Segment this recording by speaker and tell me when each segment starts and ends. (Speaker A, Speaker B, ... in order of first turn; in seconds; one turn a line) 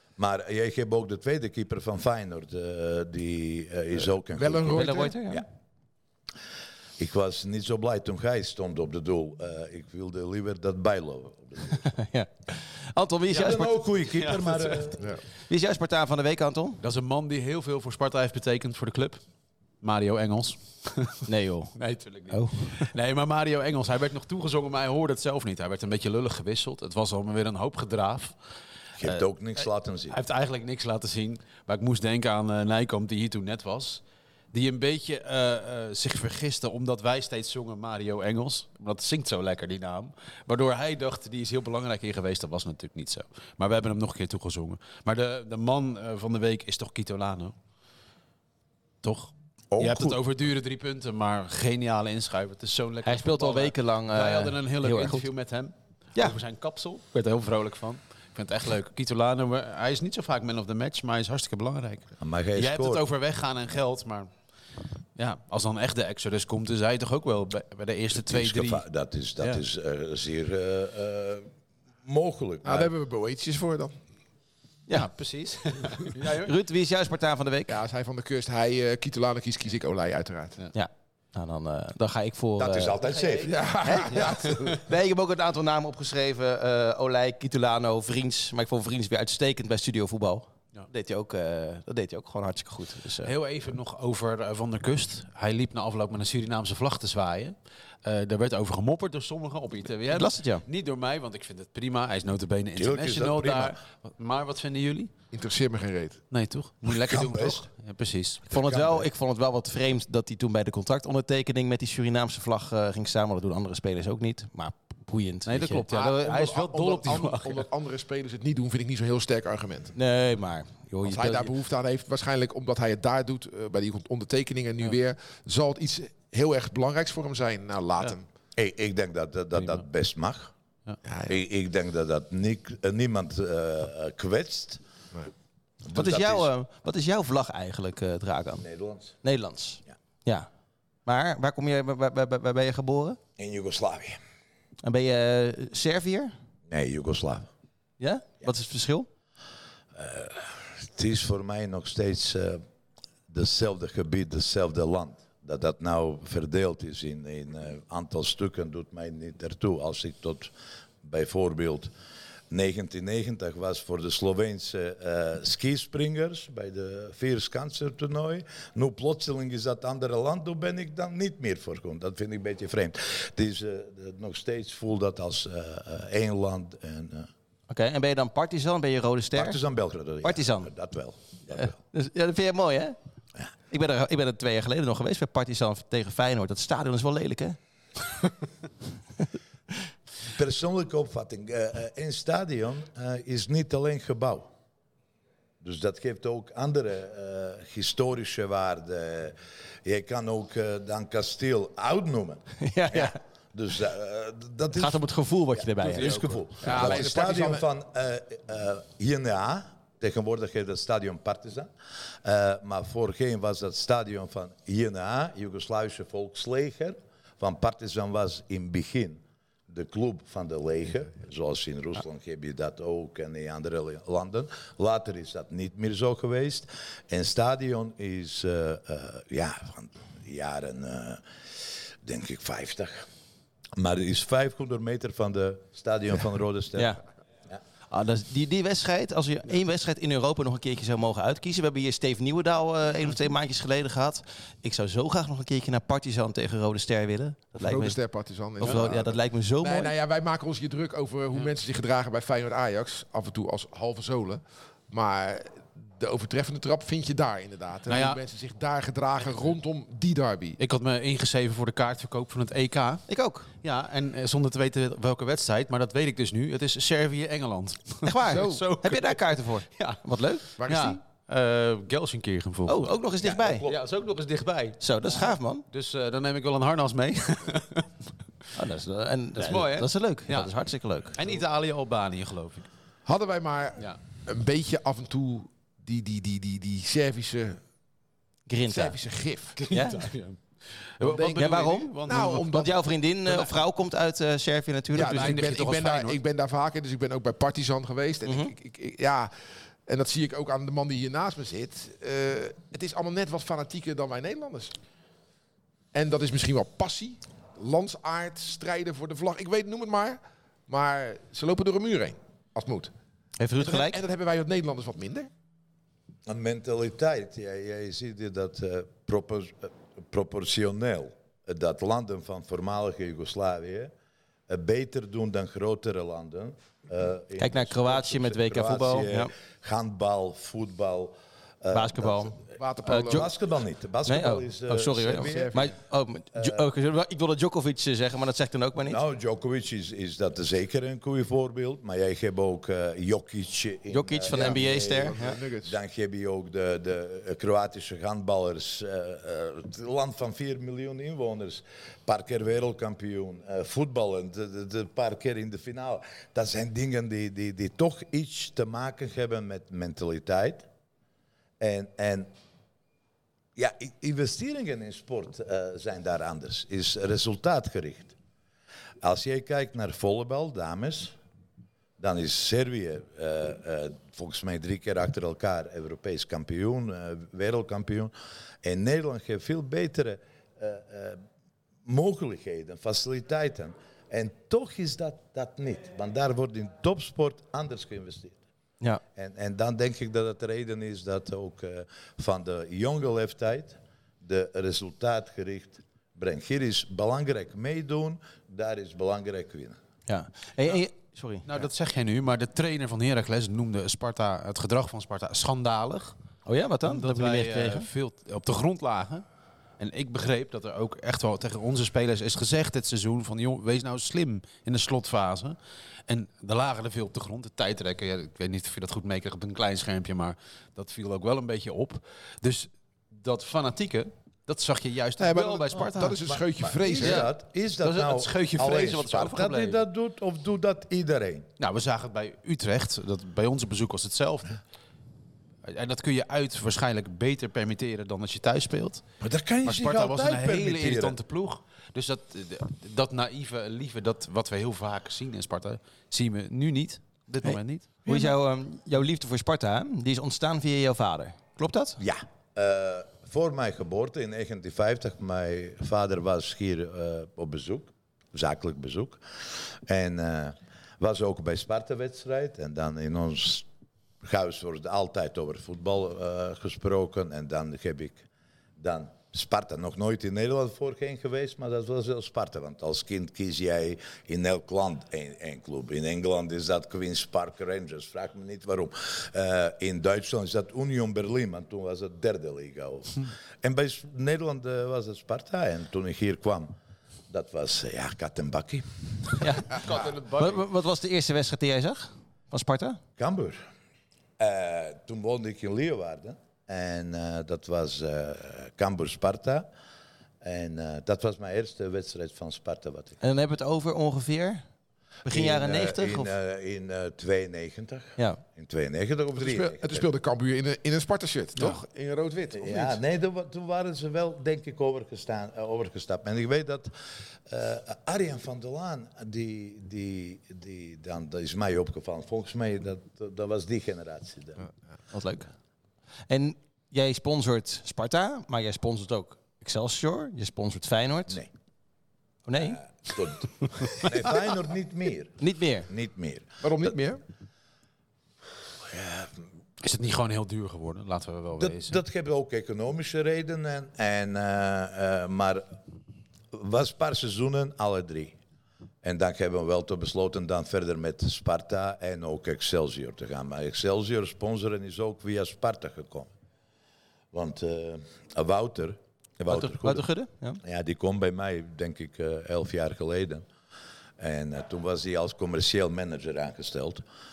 Speaker A: 0.2-5.5
Speaker B: 4.3-5.1
Speaker C: 4.7-5.4
Speaker A: 7.0-11.8
Speaker C: 11.8-13.7
Speaker A: 13.3-15.1
Speaker D: 14.1-14.9
Speaker C: 15.5-16.8
Speaker D: 16.8-19.2
Speaker D: 19.8-28.3
Speaker C: 21.2-21.7
Speaker C: 22.3-22.9
Speaker A: 29.0-30.2
Speaker D: 30.1-34.0
Speaker D: 34.5-47.5
Speaker D: 49.0-64.3
Speaker A: 49.7-50.2
Speaker C: 53.0-55.3
Speaker A: 62.2-63.0
Speaker D: 65.2-68.8
Speaker A: 68.1-71.5
Speaker A: 72.0-72.9
Speaker B: 72.6-73.9
Speaker D: 74.9-76.5
Speaker C: 76.2-77.8
Speaker B: 77.7-80.6
Speaker C: 80.7-83.0
Speaker A: 82.6-83.6
Speaker D: 83.0-83.5
Speaker B: 83.5-84.8
Speaker C: 83.8-93.3
Speaker D: 84.1-84.4
Speaker D: 93.2-105.1
Speaker C: 100.1-100.6
Speaker A: 102.8-103.8
Speaker B: 105.3-106.2
Speaker D: 106.3-108.4
Speaker A: 106.8-107.6
Speaker A: 108.5-109.0
Speaker C: 108.5-115.9
Speaker D: 115.5-117.7
Speaker B: 115.9-119.9
Speaker C: 119.9-121.5
Speaker B: 121.0-128.2
Speaker A: 128.6-130.5
Speaker D: 129.6-129.8
Speaker B: 131.0-131.3
Speaker A: 131.3-134.8
Speaker A: 135.8-136.5
Speaker C: 135.9-138.6
Speaker A: 138.6-139.2
Speaker C: 139.2-140.5
Speaker C: 141.1-143.2
Speaker A: 143.4-144.2
Speaker C: 144.8-146.3
Speaker A: 146.7-147.5
Speaker C: 148.0-149.1
Speaker A: 149.9-152.6
Speaker A: 153.3-160.5
Speaker A: 161.0-161.9
Speaker A: 162.5-177.3
Speaker C: 177.7-179.6
Speaker A: 179.3-181.8
Speaker C: 180.2-180.7
Speaker C: 181.5-182.9
Speaker C: 183.7-187.6
Speaker A: 190.3-194.5
Speaker A: 195.6-205.0
Speaker C: 202.6-203.2
Speaker C: 204.7-206.2
Speaker A: 205.5-211.7
Speaker D: 205.8-207.0
Speaker B: 206.6-207.6
Speaker A: 212.2-231.2
Speaker A: 232.0-233.1
Speaker A: 233.8-236.9
Speaker C: 236.7-237.0
Speaker C: 237.9-248.0
Speaker B: 247.6-260.6
Speaker C: 248.6-249.9
Speaker D: 257.9-258.2
Speaker D: 260.6-263.0
Speaker C: 263.1-263.5
Speaker D: 263.6-269.2
Speaker C: 268.0-270.4
Speaker B: 268.3-268.6
Speaker B: 270.6-271.0
Speaker D: 270.6-272.9
Speaker C: 272.7-273.6
Speaker A: 273.2-273.8
Speaker D: 273.6-277.9
Speaker C: 274.8-275.6
Speaker C: 278.5-281.1
Speaker D: 279.4-280.5
Speaker D: 281.1-282.7
Speaker B: 283.1-287.6
Speaker C: 288.5-288.9
Speaker B: 288.7-289.6
Speaker D: 289.6-290.4
Speaker C: 289.7-290.0
Speaker D: 291.0-292.5
Speaker B: 291.0-291.5
Speaker C: 291.3-295.4
Speaker B: 292.1-292.8
Speaker B: 294.9-299.3
Speaker D: 294.9-296.2
Speaker C: 298.2-298.5
Speaker B: 299.9-304.7
Speaker B: 305.9-312.9
Speaker C: 313.4-314.0
Speaker B: 313.6-315.3
Speaker A: 316.3-323.9
Speaker A: 324.5-335.7
Speaker C: 327.4-329.3
Speaker C: 331.7-333.3
Speaker B: 332.6-333.3
Speaker C: 334.0-339.0
Speaker B: 335.1-335.7
Speaker A: 336.3-336.6
Speaker A: 338.9-360.6
Speaker C: 343.9-345.4
Speaker B: 344.3-345.8
Speaker A: 361.6-362.3
Speaker A: 363.6-368.1
Speaker A: 369.0-371.1
Speaker A: 372.0-381.2
Speaker A: 381.8-388.4
Speaker A: 389.1-399.8
Speaker C: 400.1-401.5
Speaker D: 401.4-406.1
Speaker C: 406.4-407.9
Speaker D: 406.9-409.2
Speaker D: 409.8-426.2
Speaker B: 425.2-427.2
Speaker A: 426.2-431.5
Speaker D: 427.0-427.3
Speaker D: 427.8-429.8
Speaker D: 431.6-434.6
Speaker D: 435.6-439.0
Speaker A: 439.2-441.2
Speaker D: 439.6-448.1
Speaker C: 447.4-452.0
Speaker A: 452.0-459.2
Speaker A: 459.9-463.7
Speaker A: 464.2-468.2
Speaker A: 468.8-486.7
Speaker A: 487.3-489.4
Speaker C: 489.4-489.8
Speaker D: 489.7-490.6
Speaker C: 490.3-493.0
Speaker A: 493.2-493.6
Speaker A: 494.4-499.7
Speaker A: 500.4-503.2
Speaker C: 503.2-504.6
Speaker C: 505.2-506.3
Speaker A: 505.3-510.1
Speaker B: 509.4-513.0
Speaker A: 512.5-516.9
Speaker A: 517.5-524.6
Speaker C: 525.1-525.5
Speaker C: 526.3-531.4
Speaker C: 532.5-532.8
Speaker A: 532.5-536.9
Speaker C: 535.4-535.9
Speaker B: 536.6-537.2
Speaker A: 538.9-539.4
Speaker D: 539.8-542.0
Speaker A: 541.6-545.7
Speaker A: 546.5-548.4
Speaker A: 549.0-556.3
Speaker A: 557.3-560.0
Speaker C: 559.5-560.6
Speaker A: 560.6-563.5
Speaker A: 564.2-567.0